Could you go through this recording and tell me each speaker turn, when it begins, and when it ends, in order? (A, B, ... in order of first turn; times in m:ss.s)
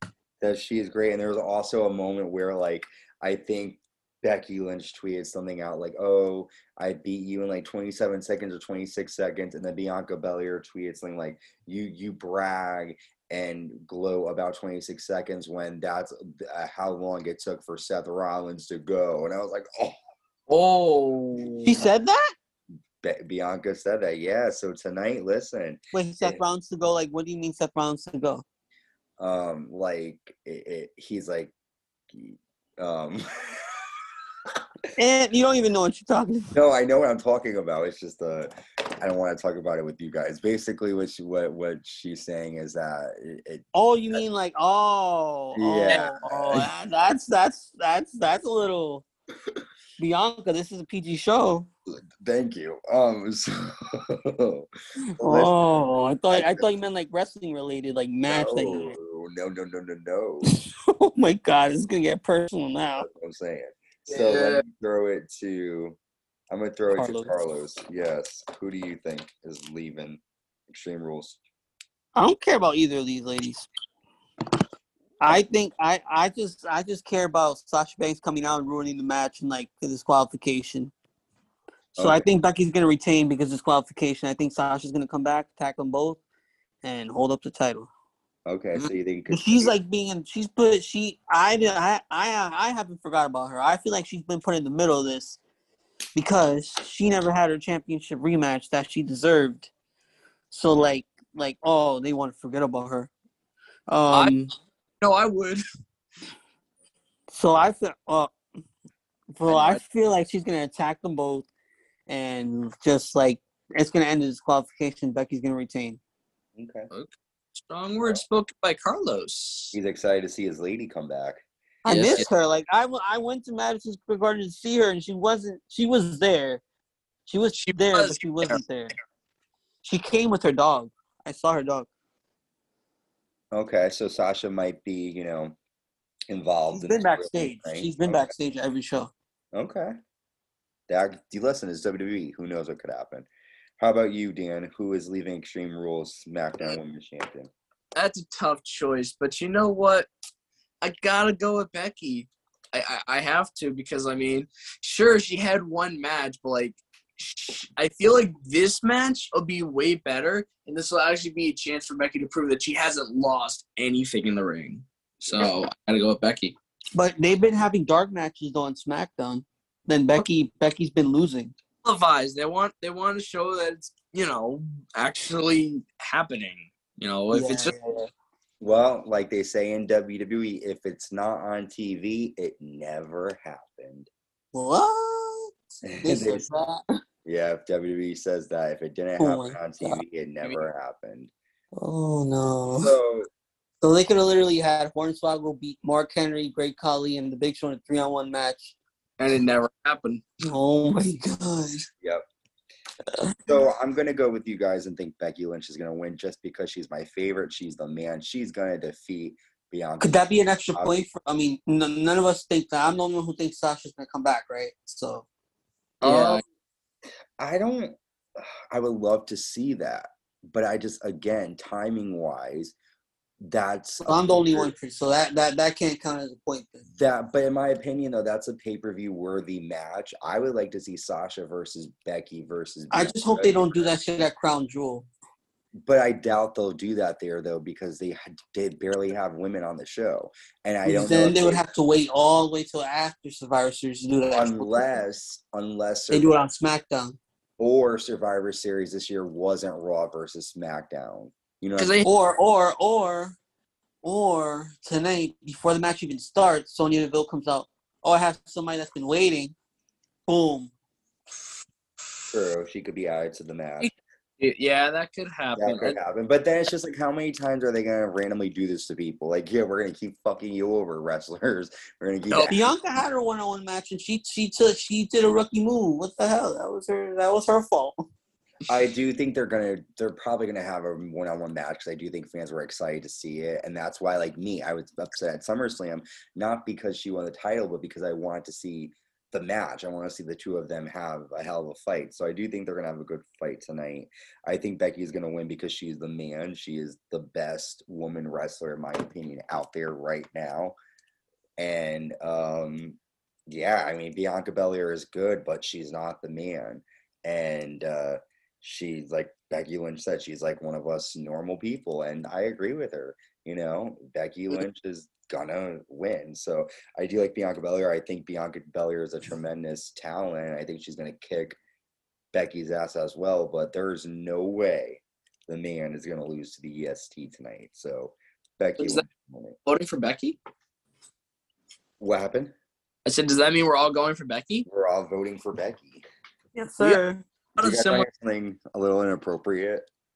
0:00.4-0:20.0 A
0:20.5-0:21.8 B
0:21.6-0:22.3 C
0:23.0-0:26.4 A
0:25.9-0:28.4 C
0:29.2-0:31.5 A
0:32.1-0:33.7 A
0:35.0-0:36.5 C
0:36.5-0:44.2 A
0:43.7-0:49.0 C
0:45.6-0:46.7 A
0:50.0-0:51.7 C
0:51.9-0:54.7 A
0:55.0-0:59.0 C
0:55.2-0:56.7 A
0:58.3-1:00.5 A
1:00.9-1:03.1 C
1:03.0-1:06.0 A
1:04.1-1:04.6 B
1:06.5-1:11.4 A
1:06.9-1:07.3 C
1:12.1-1:13.7 C
1:15.2-1:20.9 C
1:22.0-1:22.3 A
1:22.0-1:26.2 C
1:26.8-1:27.9 C
1:28.4-1:29.7 A
1:28.8-1:35.4 C
1:36.1-1:39.7 C
1:40.5-1:43.1 C
1:43.9-1:44.5 C
1:44.1-1:44.4 B
1:45.0-1:45.6 B
1:47.3-1:48.3 C
1:49.3-1:51.5 C
1:49.5-1:49.8 B
1:52.1-1:56.0 C
1:56.6-1:56.9 A
1:56.9-1:59.8 B
1:59.7-2:02.3 A
2:01.8-2:06.6 C
2:01.9-2:02.3 B
2:07.3-2:08.9 C
2:07.6-2:08.6 B
2:09.8-2:11.9 C
2:13.5-2:15.6 A
2:16.3-2:18.3 A
2:16.7-2:19.1 C
2:19.5-2:19.9 A
2:20.9-2:23.3 A
2:23.8-2:27.5 A
2:28.0-2:30.1 B
2:30.8-2:46.6 B
2:47.0-2:51.6 C
2:51.8-2:57.7 B
2:57.3-2:58.1 C
2:58.6-3:04.1 A
3:04.5-3:06.8 C
3:05.9-3:06.5 A
3:07.2-3:11.3 A
3:09.2-3:10.0 C
3:11.7-3:13.0 C
3:12.8-3:13.3 A
3:13.8-3:18.8 C
3:19.2-3:20.2 B
3:20.4-3:21.9 C
3:23.1-3:23.4 C
3:23.4-3:31.1 A
3:30.0-3:35.3 C
3:36.0-3:36.4 B
3:36.0-3:36.4 A
3:36.1-3:36.4 C
3:37.4-3:42.7 A
3:43.4-3:44.7 A
3:44.0-3:46.8 C
3:46.9-3:53.9 A
3:52.9-3:55.1 C
3:55.8-4:01.6 A
4:00.8-4:04.9 C
4:04.3-4:06.5 A
4:06.1-4:07.2 C
4:07.6-4:12.0 A
4:11.8-4:12.1 B
4:12.0-4:13.4 C
4:14.0-4:19.5 C
4:20.3-4:20.7 C
4:22.3-4:23.9 A
4:23.8-4:26.0 B
4:25.6-4:33.0 A
4:32.3-4:32.6 B
4:32.5-4:38.1 C
4:38.7-5:00.8 A
5:01.6-5:21.6 A
5:22.3-5:29.6 A
5:28.8-5:29.0 B
5:29.7-5:30.4 B
5:32.0-5:32.5 A
5:33.0-5:34.7 B
5:34.7-5:36.0 A
5:36.6-5:37.2 C
5:37.6-5:38.1 B
5:37.6-5:39.9 A